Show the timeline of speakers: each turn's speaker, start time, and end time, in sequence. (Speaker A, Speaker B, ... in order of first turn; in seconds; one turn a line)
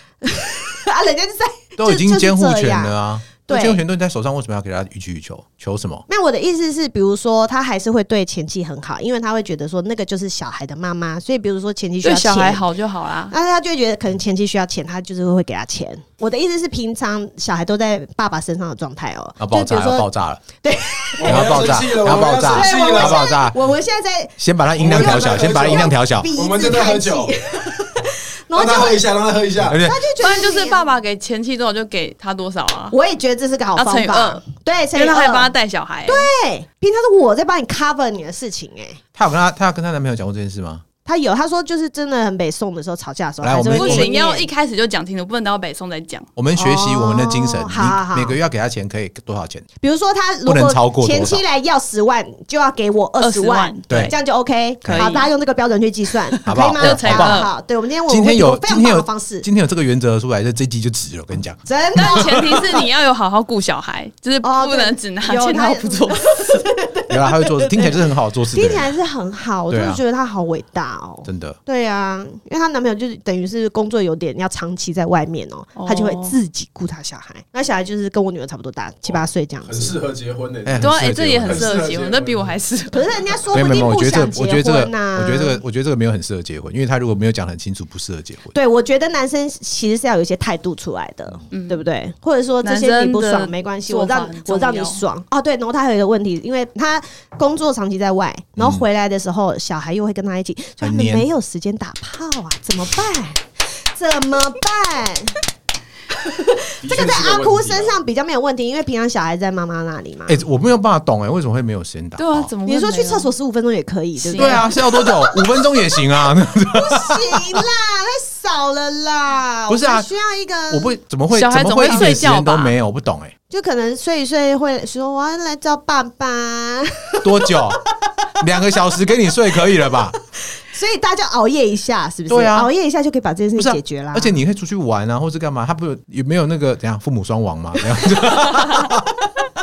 Speaker A: 0.2-3.8
Speaker B: 1.8-6.0
Speaker A: 6.1-12.7
Speaker C: 12.0-13.3
Speaker A: 13.3-21.8
Speaker B: 19.4-20.4
Speaker D: 21.2-23.3
Speaker B: 21.2-23.6
Speaker A: 22.4-29.1
Speaker B: 24.4-26.3
Speaker D: 24.8-27.4
Speaker D: 28.5-29.8
Speaker B: 29.6-30.0
Speaker A: 29.8-30.8
Speaker C: 30.2-33.0
Speaker A: 32.9-35.5
Speaker C: 33.8-36.3
Speaker A: 36.0-39.0
Speaker B: 39.1-40.8
Speaker A: 41.0-44.5
Speaker B: 43.4-44.1
Speaker C: 43.7-46.3
Speaker B: 46.4-49.6
Speaker A: 46.5-48.4
Speaker A: 49.8-59.5
Speaker B: 50.5-51.4
Speaker C: 53.2-54.1
Speaker C: 54.8-55.3
Speaker B: 54.8-55.2
Speaker C: 56.3-57.5
Speaker B: 56.5-57.4
Speaker B: 58.1-62.6
Speaker A: 61.6-62.8
Speaker C: 61.9-66.6
Speaker A: 64.4-80.0
Speaker B: 67.1-68.9
Speaker B: 69.7-70.0
Speaker B: 71.2-71.6
Speaker C: 75.8-76.4
Speaker D: 79.1-82.5
Speaker B: 80.6-81.7
Speaker C: 80.8-83.1
Speaker A: 82.9-85.6
Speaker D: 83.3-83.7
Speaker B: 83.5-88.5
Speaker A: 88.5-105.4
Speaker C: 91.5-91.8
Speaker C: 92.6-95.0
Speaker B: 98.6-98.8
Speaker B: 100.8-101.3
Speaker A: 106.2-110.4
Speaker D: 106.8-108.0
Speaker B: 110.3-112.5
Speaker C: 112.2-113.3
Speaker A: 112.7-115.9
Speaker C: 114.2-114.7
Speaker B: 114.3-117.6
Speaker A: 116.7-120.9
Speaker B: 119.7-120.1
Speaker B: 120.7-123.3
Speaker C: 121.3-122.7
Speaker A: 121.8-122.2
Speaker A: 123.5-127.8
Speaker B: 127.2-127.8
Speaker B: 128.4-130.1
Speaker A: 130.6-134.3
Speaker B: 132.3-132.7
Speaker B: 133.6-139.1